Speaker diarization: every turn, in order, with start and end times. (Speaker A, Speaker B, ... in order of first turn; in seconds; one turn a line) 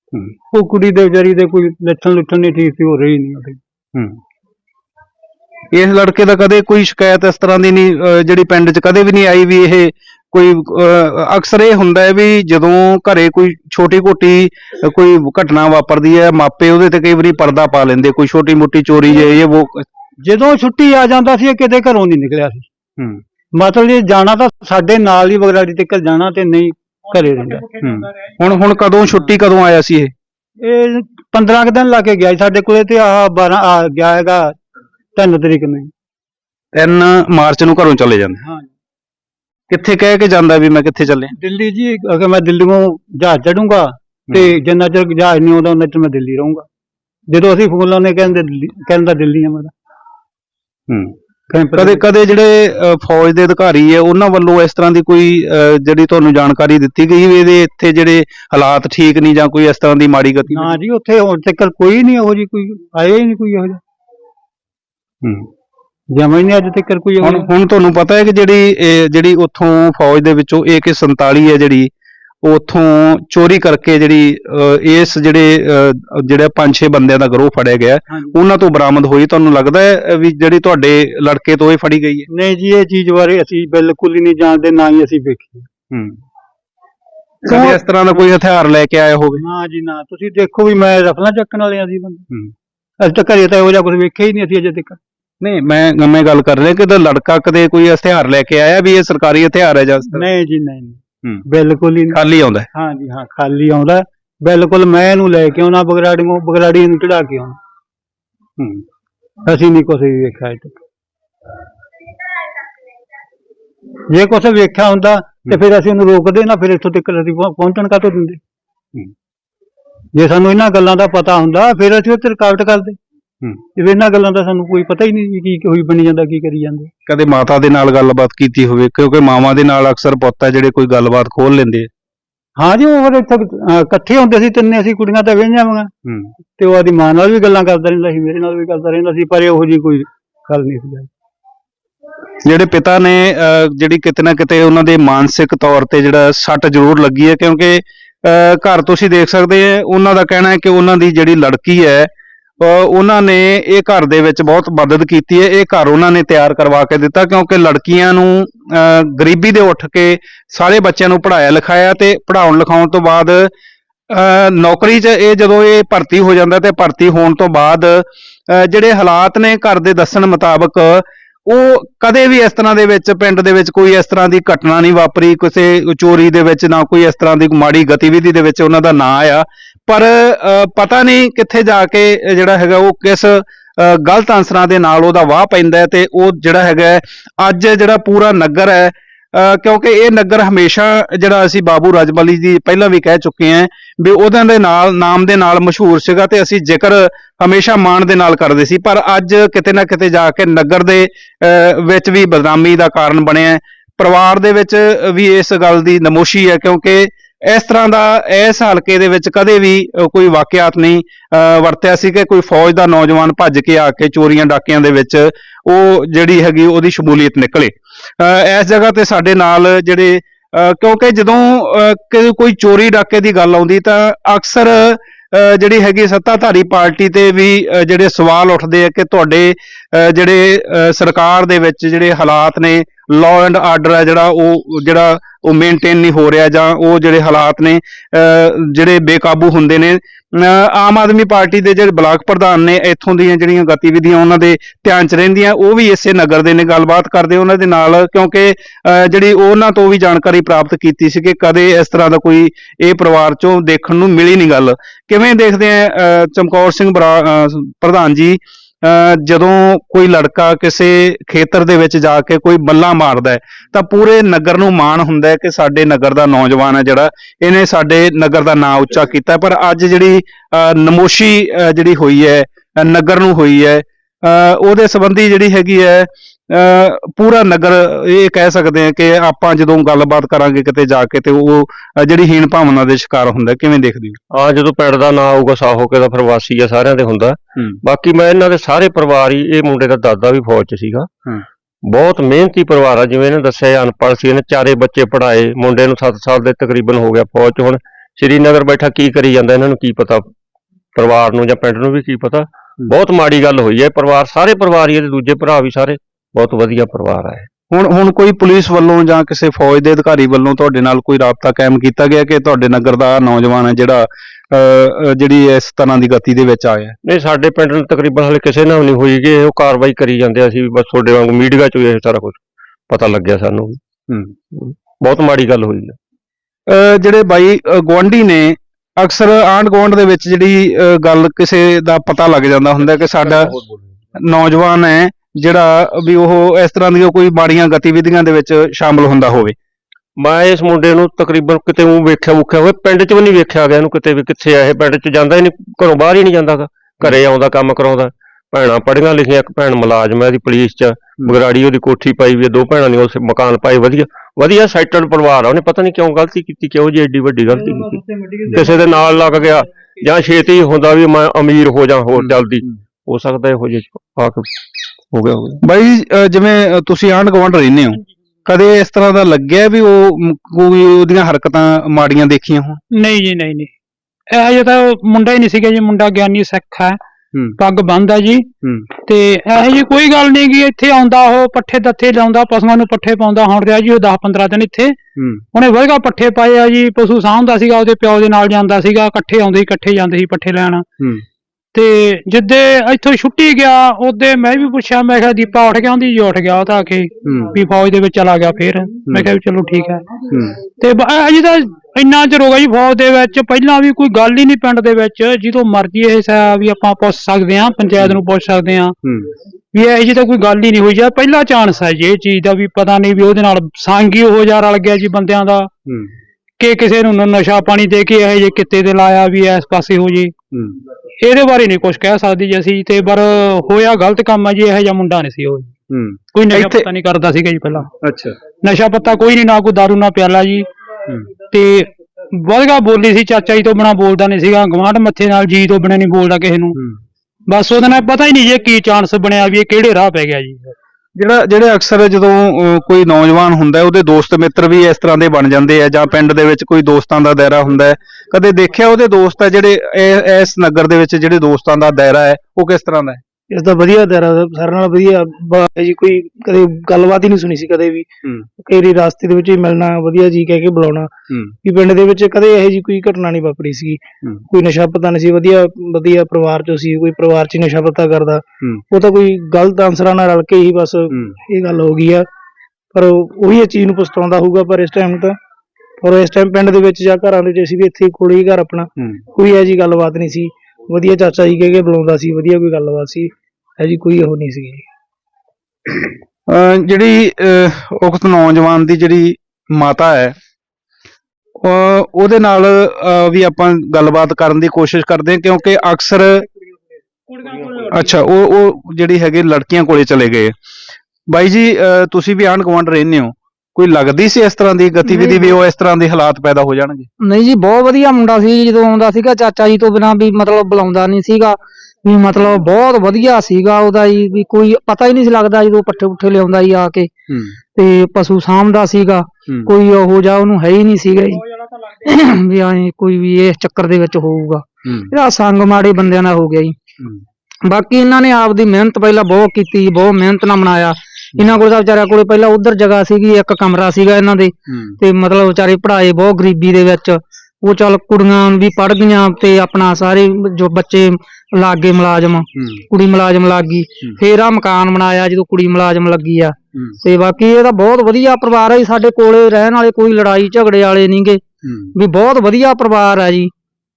Speaker A: 0.5-3.6
Speaker B: 5.7-19.9
Speaker A: 20.2-22.7
Speaker A: 23.6-27.7
Speaker B: 27.8-30.1
Speaker A: 30.6-34.6
Speaker A: 35.2-35.9
Speaker B: 36.7-38.4
Speaker A: 38.4-38.7
Speaker B: 39.7-41.3
Speaker A: 41.4-46.7
Speaker A: 47.3-49.7
Speaker B: 50.9-51.1
Speaker A: 51.5-52.0
Speaker B: 51.8-60.8
Speaker A: 60.5-63.8
Speaker A: 66.1-67.5
Speaker B: 67.2-71.9
Speaker B: 72.4-82.3
Speaker A: 82.3-85.7
Speaker B: 85.9-86.2
Speaker B: 87.5-89.4
Speaker A: 87.5-87.8
Speaker A: 89.4-92.3
Speaker A: 93.0-95.0
Speaker B: 95.4-100.3
Speaker A: 100.1-102.2
Speaker B: 102.1-102.7
Speaker A: 102.7-107.6
Speaker A: 109.5-110.8
Speaker A: 114.1-118.4
Speaker A: 120.2-123.0
Speaker A: 123.8-126.9
Speaker B: 127.1-131.9
Speaker A: 132.6-135.9
Speaker A: 136.6-141.1
Speaker B: 142.4-163.5
Speaker B: 164.1-284.2
Speaker C: 284.3-291.1
Speaker C: 291.9-300.3
Speaker C: 300.9-307.5
Speaker B: 307.7-317.0
Speaker C: 317.0-323.8
Speaker C: 324.5-326.0
Speaker B: 326.7-333.5
Speaker C: 333.4-334.0
Speaker B: 334.1-339.6
Speaker C: 340.2-364.6
Speaker A: 357.5-358.9
Speaker C: 365.1-365.6
Speaker B: 365.6-372.8
Speaker D: 372.9-373.7
Speaker D: 374.3-377.0
Speaker D: 377.6-378.5
Speaker D: 379.1-385.0
Speaker B: 385.2-385.4
Speaker D: 385.5-390.9
Speaker B: 391.0-391.2
Speaker D: 391.7-400.2
Speaker B: 397.2-397.6
Speaker B: 400.3-400.6
Speaker D: 400.7-408.9
Speaker B: 409.0-409.3
Speaker D: 409.7-415.7
Speaker B: 415.9-416.1
Speaker D: 416.6-420.3
Speaker D: 421.2-425.7
Speaker B: 425.9-426.9
Speaker D: 426.3-427.9
Speaker B: 428.0-428.4
Speaker D: 428.6-430.7
Speaker D: 431.5-436.8
Speaker D: 437.5-440.8
Speaker B: 441.2-453.2
Speaker E: 453.5-458.1
Speaker E: 458.6-472.3
Speaker B: 471.1-471.4
Speaker E: 472.9-475.4
Speaker E: 476.0-484.8
Speaker B: 486.5-490.4
Speaker B: 491.6-496.5
Speaker D: 497.3-497.7
Speaker B: 497.8-500.5
Speaker B: 501.3-507.1
Speaker F: 507.2-517.1
Speaker B: 517.3-517.6
Speaker F: 517.8-521.4
Speaker F: 522.0-526.8
Speaker B: 524.9-525.1
Speaker F: 527.7-551.4
Speaker B: 534.7-535.0
Speaker B: 542.6-542.8
Speaker B: 551.6-551.9
Speaker F: 552.0-553.5